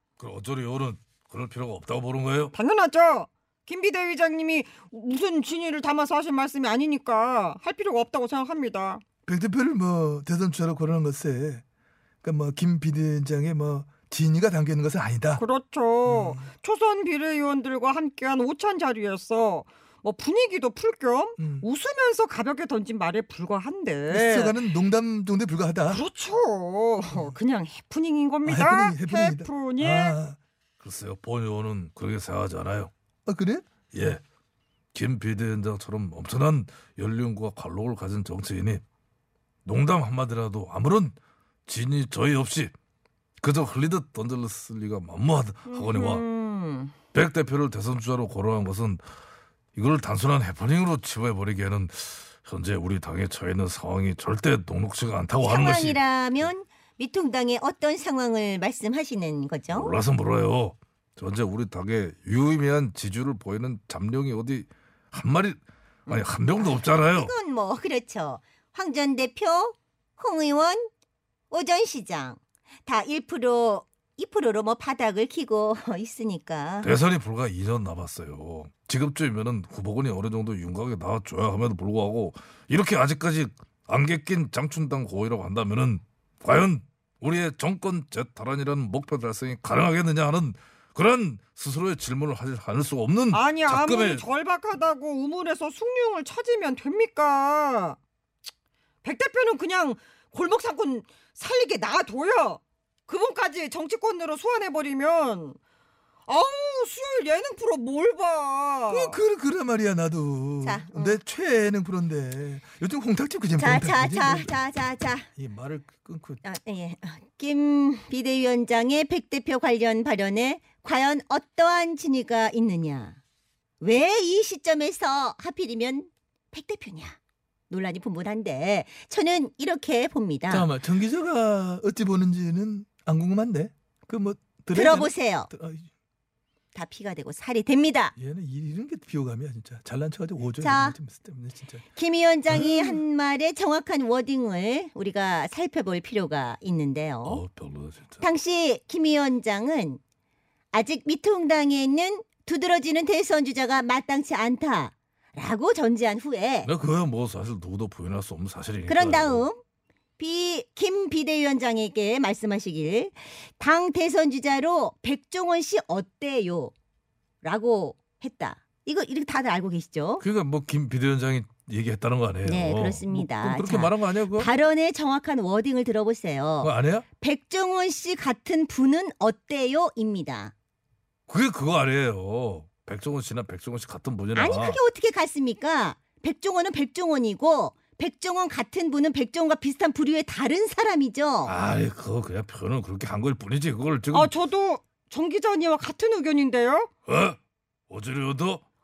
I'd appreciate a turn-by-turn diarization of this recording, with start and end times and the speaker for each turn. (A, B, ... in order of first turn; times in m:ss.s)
0:00.2-0:02.5 A
0:02.5-0:09.0 B
0:09.2-0:11.6 C
0:12.2-0:15.4 C
0:15.4-0:24.6 B
0:16.0-0:16.5 C
0:21.4-0:21.6 C
0:24.1-0:26.0 C
0:25.9-0:30.2 B
0:28.4-0:30.4 C
0:30.8-0:32.9 A
0:33.2-0:33.7 C
0:33.9-0:34.2 A
0:34.9-0:38.8 A
0:39.6-0:42.7 A
0:43.4-0:46.2 A
0:45.7-0:46.9 D
0:47.1-0:49.0 A
0:49.8-0:56.0 A
0:55.4-0:59.9 D
0:59.7-1:07.3 A
1:06.1-1:10.9 D
1:11.5-1:16.9 D
1:16.8-1:34.2 A
1:33.3-1:38.0 B
1:39.0-1:45.6 B
1:46.3-1:49.2 B
1:48.9-1:54.5 C
1:50.6-1:51.2 D
1:53.6-1:55.3 D
1:55.4-1:56.4 C
1:56.4-2:03.2 D
2:03.8-2:07.2 D
2:07.7-2:10.7 D
2:10.5-2:15.9 C
2:14.7-2:15.5 D
2:16.7-2:18.1 D
2:18.2-2:21.8 C
2:20.6-2:21.0 D
2:21.9-2:27.4 D
2:22.5-2:23.0 C
2:27.2-2:28.2 A
2:28.2-2:30.0 D
2:30.7-2:36.7 D
2:36.6-2:39.4 A
2:38.9-2:39.6 D
2:40.2-2:46.7 D
2:47.4-2:50.2 D
2:50.2-2:54.5 A
2:52.4-3:00.5 D
2:56.6-2:57.0 A
3:01.3-3:04.8 A
3:04.3-3:11.6 D
3:11.4-3:14.3 A
3:14.1-3:16.9 B
3:17.1-3:17.4 A
3:17.9-3:18.6 A